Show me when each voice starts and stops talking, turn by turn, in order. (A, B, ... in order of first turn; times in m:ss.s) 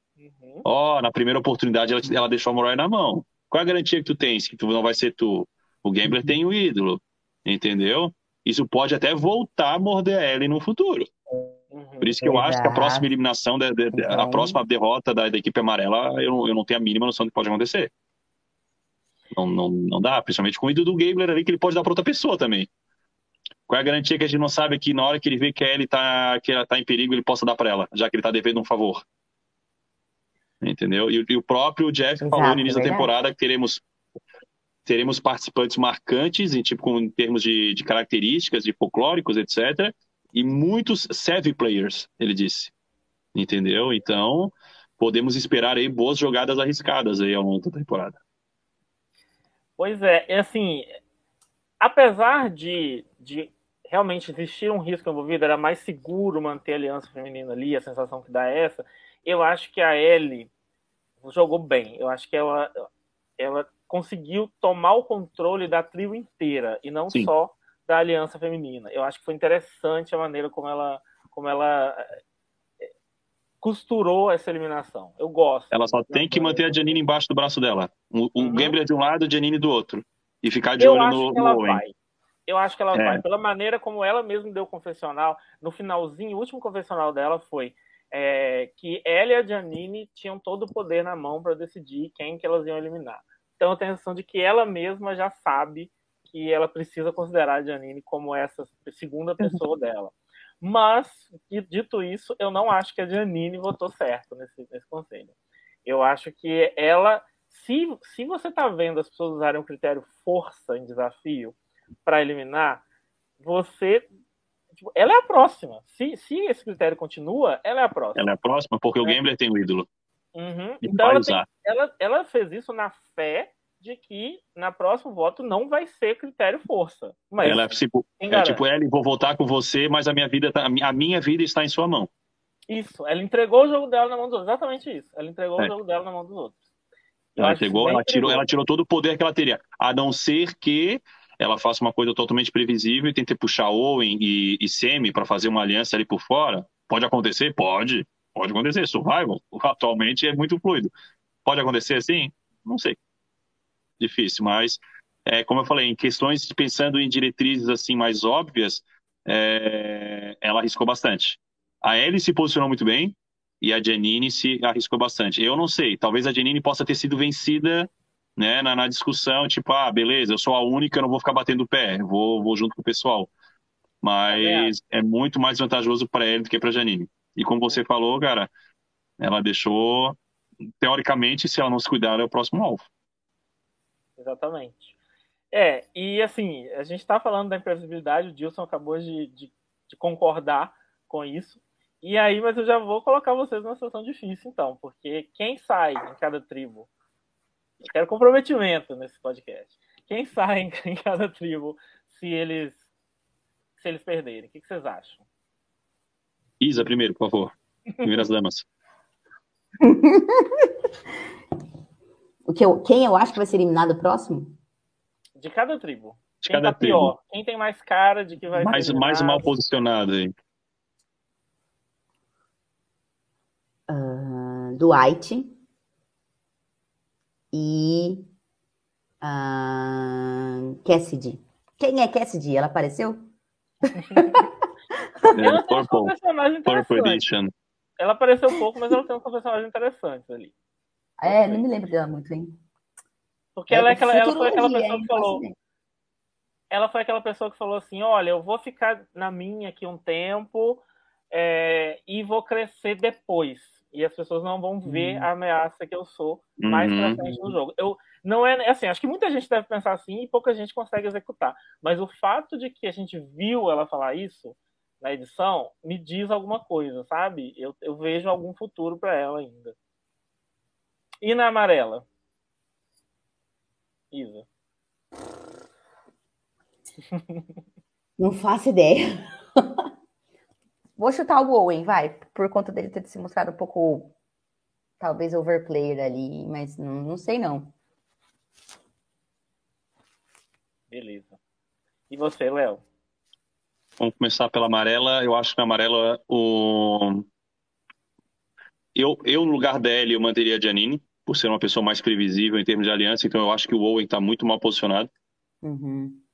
0:00.2-0:00.6 A
0:00.6-0:11.1 B
0:06.0-0:06.4 C
0:11.7-0:12.2 A
0:12.0-0:17.9 B
0:12.2-0:13.1 C
0:13.9-0:14.6 C
0:19.3-0:22.7 B
0:23.7-0:29.0 B
0:30.6-0:33.8 B
0:32.2-0:33.1 C
0:34.8-0:42.7 B
0:43.3-0:48.2 B
0:49.8-0:50.9 A
0:51.8-1:00.5 A
1:01.2-1:02.8 A
1:03.4-1:12.1 A
1:13.6-1:17.0 A
1:15.7-1:21.8 B
1:18.4-1:18.7 A
1:20.8-1:21.9 A
1:22.5-1:45.3 A
1:22.9-1:23.2 B
1:45.8-1:52.8 A
1:53.4-1:54.0 A
1:54.8-1:58.3 A
1:58.1-1:59.9 B
2:00.3-2:07.6 A
2:00.8-2:01.4 B
2:07.4-2:12.1 B
2:08.2-2:08.6 A
2:12.7-2:16.6 A
2:17.3-2:18.4 A
2:17.4-2:30.9 B
2:31.4-2:33.0 B
2:34.0-2:53.3 B
2:54.0-2:58.5 B
2:54.3-2:54.7 A
2:59.2-3:00.2 B
3:00.8-3:02.8 B
3:04.2-3:04.9 A
3:05.5-3:16.9 A
3:17.8-3:22.8 A
3:23.8-3:25.2 A
3:26.6-3:28.6 B
3:29.8-3:30.7 C
3:32.5-3:34.6 C
3:35.4-3:39.5 A
3:36.4-3:37.1 B
3:38.6-3:40.3 B
3:43.9-3:45.6 C
3:47.5-3:48.2 C
3:49.2-3:53.3 C
3:54.1-3:54.4 C
3:55.3-3:56.1 B
3:55.4-3:57.2 A
3:56.6-3:57.5 B
3:58.0-4:00.5 A
4:01.2-4:02.6 C
4:01.2-4:01.6 A
4:03.6-4:05.4 A
4:03.7-4:05.6 C
4:06.7-4:29.7 A
4:14.8-4:15.3 C
4:16.6-4:17.4 B
4:31.2-4:32.0 A
4:34.1-4:34.4 A
4:37.1-4:37.4 A
4:38.2-4:39.8 C
4:41.0-4:44.1 C
4:45.0-4:47.7 C
4:50.9-4:51.4 A
4:52.1-4:52.8 A
4:54.0-4:57.2 B
4:58.9-5:05.1 B
5:05.6-5:06.2 C